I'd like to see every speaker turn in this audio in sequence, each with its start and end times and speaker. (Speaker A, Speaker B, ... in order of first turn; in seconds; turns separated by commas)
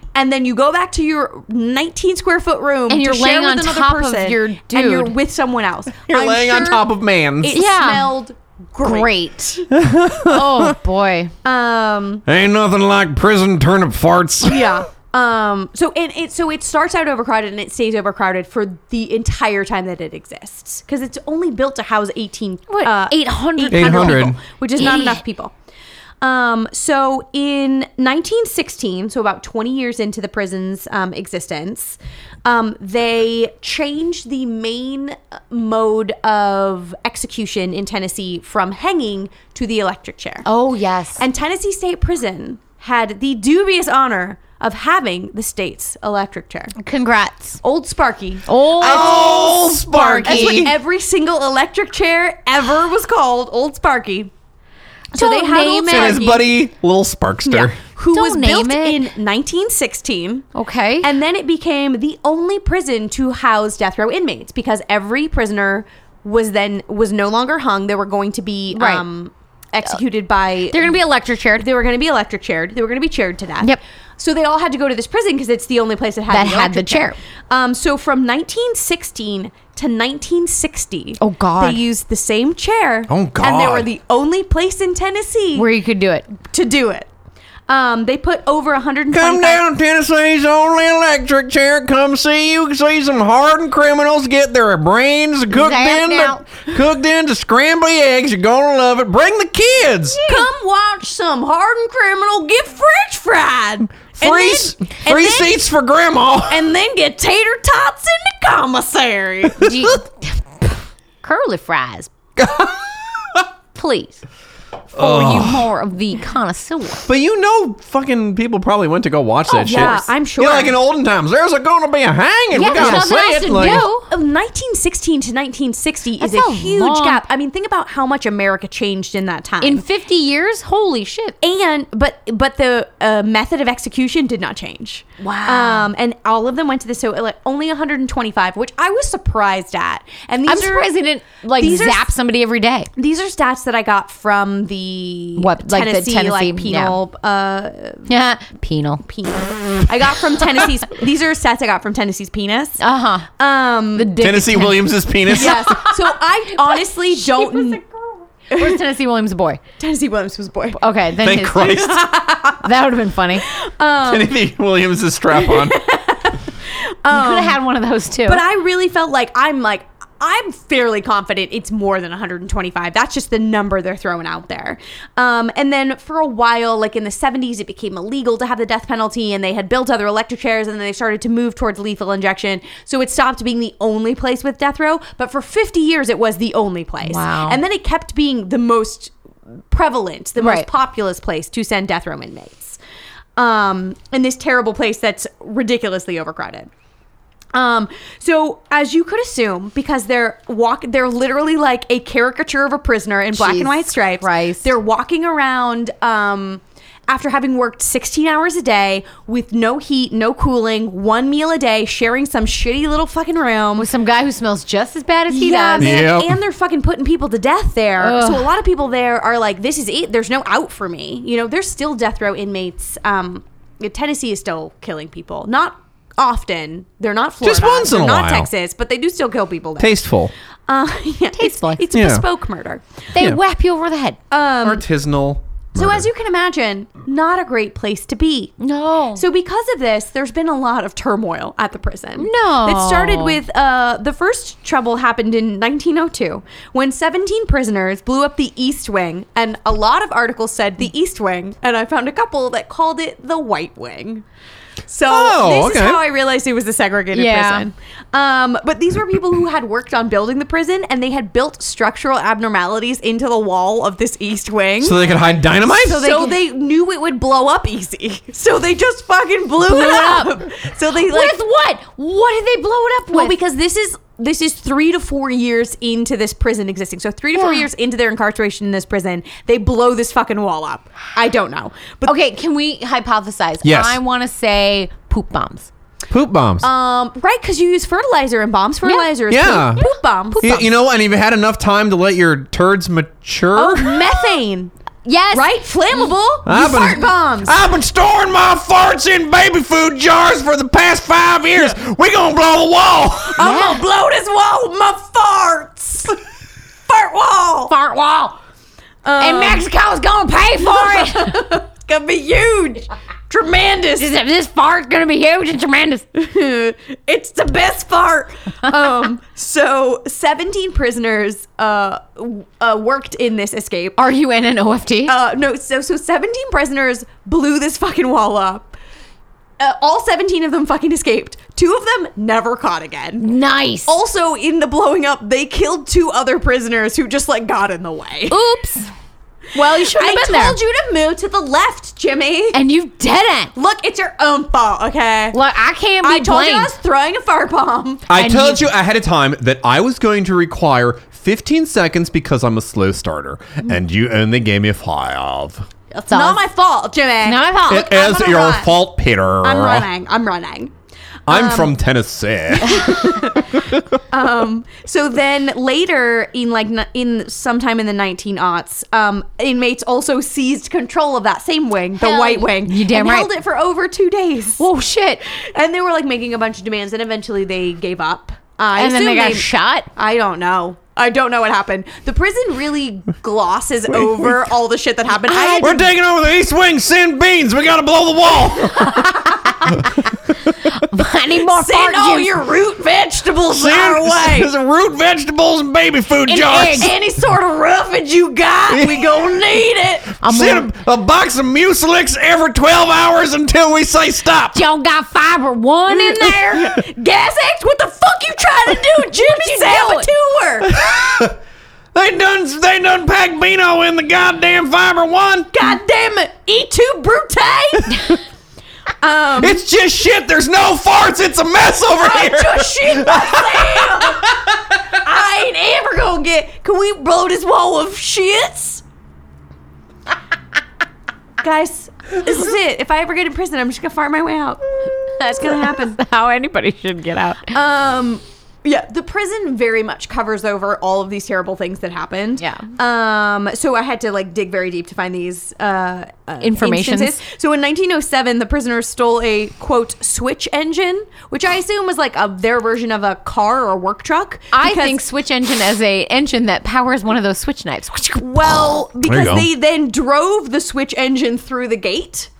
Speaker A: 0.1-9.6, Speaker B: 2.9-5.1, Speaker C: 6.0-7.5, Speaker B: 7.5-8.1, Speaker B: 8.8-9.6, Speaker C: 9.7-10.7, Speaker B: 10.2-11.3, Speaker A: 11.4-12.2, Speaker C: 12.3-14.8, Speaker A: 14.4-25.5, Speaker B: 22.7-24.2, Speaker C: 23.7-24.4, Speaker B: 24.8-25.2, Speaker A: 26.2-40.5, Speaker B: 40.4-41.2, Speaker A: 41.2-46.7, Speaker B: 46.8-47.6, Speaker A: 47.6-54.3, Speaker B: 48.5-49.1, Speaker C: 48.8-50.7, Speaker B: 50.2-50.7, Speaker A: 55.1-56.5, Speaker B: 55.1-56.3, Speaker C: 55.9-57.8, Speaker B: 57.5-59.0, Speaker A: 58.0-60.5, Speaker B: 60.5-61.1, Speaker A: 61.0-71.0, Speaker B: 68.7-69.0, Speaker B: 70.7-71.7, Speaker A: 71.6-85.7, Speaker B: 76.3-77.2, Speaker B: 81.2-81.8, Speaker C: 83.1-83.9, Speaker B: 85.5-86.3, Speaker A: 86.4-87.1, Speaker A: 87.7-89.6, Speaker C: 89.1-100.2, Speaker B: 95.5-96.6, Speaker B: 100.1-100.5, Speaker A: 100.2-105.6, Speaker C: 104.2-106.7, Speaker A: 106.5-109.7, Speaker B: 109.6-112.1, Speaker C: 109.6-109.9, Speaker C: 112.3-113.4, Speaker B: 113.7-114.2, Speaker B: 114.9-117.0, Speaker C: 115.0-115.7, Speaker C: 117.0-123.8, Speaker A: 119.5-120.8, Speaker B: 119.6-120.0, Speaker B: 122.5-124.1, Speaker A: 122.5-129.8, Speaker B: 126.2-127.2, Speaker B: 129.6-131.3, Speaker A: 131.4-140.9, Speaker B: 135.2-135.9, Speaker B: 140.4-142.9, Speaker A: 141.6-142.1, Speaker A: 142.9-148.1, Speaker B: 145.4-147.0, Speaker B: 148.1-149.0, Speaker A: 149.0-152.8, Speaker B: 152.8-153.3, Speaker A: 153.4-154.1, Speaker B: 153.9-156.0, Speaker C: 154.2-155.8, Speaker A: 155.3-157.8, Speaker B: 156.6-159.6, Speaker A: 158.5-158.8, Speaker A: 159.8-160.8, Speaker B: 160.8-162.0, Speaker C: 161.2-162.1, Speaker A: 161.8-162.7, Speaker B: 162.6-163.5, Speaker A: 163.4-164.3, Speaker C: 164.0-165.8, Speaker A: 165.3-167.6, Speaker B: 167.1-168.4, Speaker A: 168.2-189.1, Speaker B: 187.1-187.6, Speaker A: 189.7-192.8, Speaker B: 190.4-190.7, Speaker A: 193.4-196.7, Speaker A: 197.5-213.9, Speaker B: 203.3-204.7, Speaker B: 213.8-216.0, Speaker A: 215.3-230.0, Speaker C: 215.8-216.3, Speaker B: 218.0-218.5, Speaker C: 227.4-228.5, Speaker C: 229.8-230.3, Speaker A: 230.7-232.8, Speaker B: 231.3-231.8, Speaker C: 231.9-232.2, Speaker B: 233.1-234.2, Speaker A: 234.3-234.8, Speaker C: 234.6-236.1, Speaker A: 235.8-238.5, Speaker B: 238.6-239.2, Speaker A: 239.1-254.2, Speaker B: 242.2-243.4, Speaker A: 254.9-265.0, Speaker C: 255.1-256.0, Speaker B: 257.1-257.7, Speaker C: 264.8-266.1, Speaker A: 265.6-271.4, Speaker B: 265.9-266.4, Speaker B: 269.6-270.4, Speaker B: 271.0-273.3, Speaker A: 273.1-282.1, Speaker B: 277.3-277.7, Speaker B: 282.0-285.7, Speaker C: 283.6-284.0, Speaker C: 286.1-286.7, Speaker A: 286.6-290.6, Speaker C: 289.3-289.8, Speaker B: 289.8-290.6, Speaker C: 290.4-294.0, Speaker A: 293.5-294.7, Speaker B: 295.0-295.6, Speaker A: 295.3-297.6, Speaker C: 296.4-303.4, Speaker A: 303.2-306.2, Speaker B: 303.4-303.8, Speaker A: 306.9-307.7, Speaker B: 307.7-308.4, Speaker A: 309.0-309.6, Speaker B: 309.2-311.4, Speaker A: 310.6-314.1, Speaker B: 314.0-316.0, Speaker A: 316.1-324.0, Speaker B: 324.0-325.1, Speaker A: 325.0-328.8, Speaker A: 329.6-333.3, Speaker B: 333.2-333.9, Speaker A: 333.9-338.4, Speaker B: 338.3-338.9, Speaker B: 339.5-340.6, Speaker A: 339.6-342.6, Speaker B: 342.5-343.5, Speaker A: 343.5-345.4, Speaker B: 345.3-346.7, Speaker A: 346.0-348.1, Speaker C: 348.1-355.7, Speaker B: 348.1-348.7, Speaker B: 356.0-356.4, Speaker A: 356.0-358.7, Speaker B: 357.2-357.9, Speaker C: 357.7-359.9, Speaker A: 359.4-360.7, Speaker A: 361.3-361.8, Speaker C: 361.3-363.8, Speaker A: 362.6-374.6, Speaker B: 372.0-373.3, Speaker B: 374.6-375.2, Speaker A: 375.3-385.8, Speaker B: 378.8-379.9, Speaker C: 383.9-384.2, Speaker B: 385.3-385.8, Speaker C: 385.6-389.1, Speaker A: 388.7-389.8, Speaker B: 390.7-392.4, Speaker A: 391.5-394.5, Speaker C: 393.5-396.9, Speaker B: 396.3-396.9, Speaker A: 396.8-400.1, Speaker C: 398.7-399.4, Speaker C: 400.1-404.6, Speaker B: 400.2-400.7, Speaker B: 404.5-406.7, Speaker A: 405.9-410.8, Speaker B: 409.0-410.1, Speaker C: 410.6-411.4, Speaker C: 411.9-415.5, Speaker A: 415.5-418.1, Speaker A: 419.0-419.6, Speaker C: 419.4-424.6, Speaker A: 421.9-428.8, Speaker A: 431.4-436.0, Speaker B: 435.3-437.5, Speaker A: 437.5-455.0, Speaker B: 446.4-447.2, Speaker B: 454.5-458.4, Speaker A: 458.1-462.3, Speaker C: 459.1-459.5